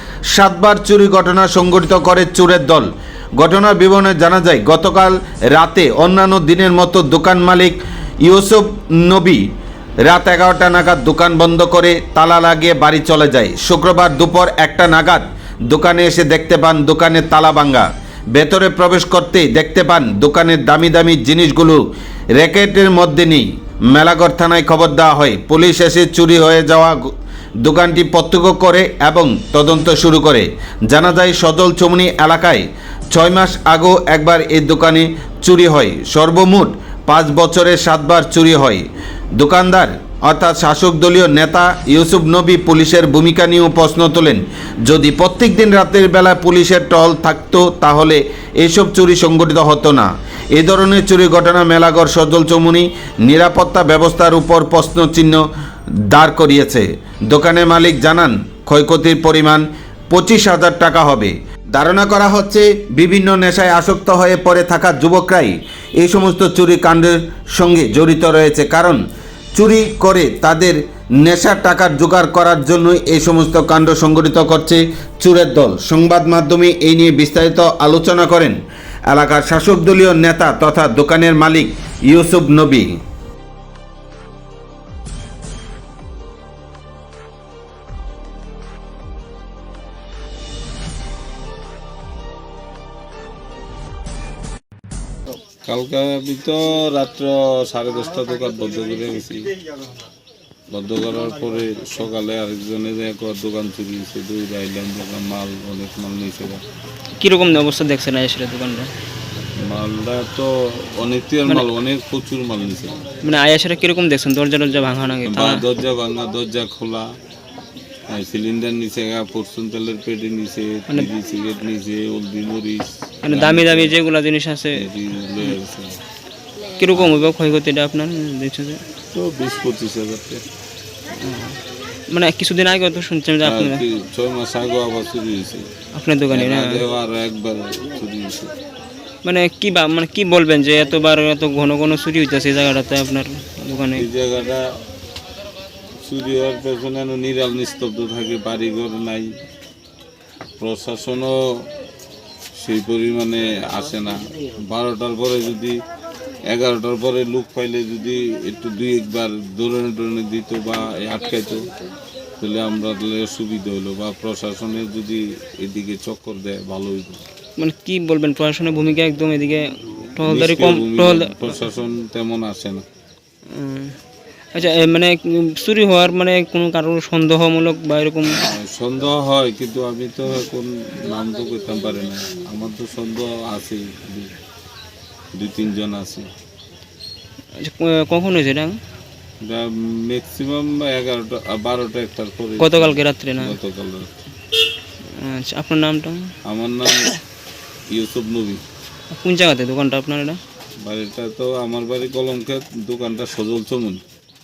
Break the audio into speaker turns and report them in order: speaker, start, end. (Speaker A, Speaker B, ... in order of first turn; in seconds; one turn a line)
Speaker A: 0.3-9.4
Speaker A: 10.1-21.8
Speaker A: 22.4-27.0
Speaker A: 27.6-38.9
Speaker A: 39.4-55.4
Speaker A: 56.1-69.0
Speaker A: 69.5-78.6
Speaker A: 79.1-83.0
Speaker B: 95.6-99.6
Speaker B: 100.7-106.6
Speaker C: 107.2-108.9
Speaker B: 109.5-113.1
Speaker C: 113.2-115.6
Speaker B: 115.2-117.1
Speaker B: 118.1-124.0
Speaker C: 123.2-124.9
Speaker B: 124.7-126.0
Speaker C: 126.8-128.8
Speaker B: 129.1-130.4
Speaker C: 131.1-133.8
Speaker B: 133.4-135.7
Speaker C: 135.9-136.8
Speaker B: 136.3-138.5
Speaker C: 139.2-144.1
Speaker B: 143.9-144.7
Speaker B: 146.0-149.3
Speaker B: 150.6-151.7
Speaker B: 152.6-155.8
Speaker B: 156.5-161.7
Speaker B: 162.4-167.2
Speaker C: 167.6-171.5
Speaker B: 170.2-172.8
Speaker C: 173.5-173.9
Speaker C: 174.5-178.5
Speaker B: 178.2-184.3
Speaker B: 185.3-186.3
Speaker C: 187.6-188.8
Speaker B: 189.4-194.1
Speaker C: 192.6-193.6
Speaker C: 195.1-196.2
Speaker B: 196.4-197.2
Speaker B: 197.9-198.6
Speaker C: 199.1-200.4
Speaker B: 200.8-204.0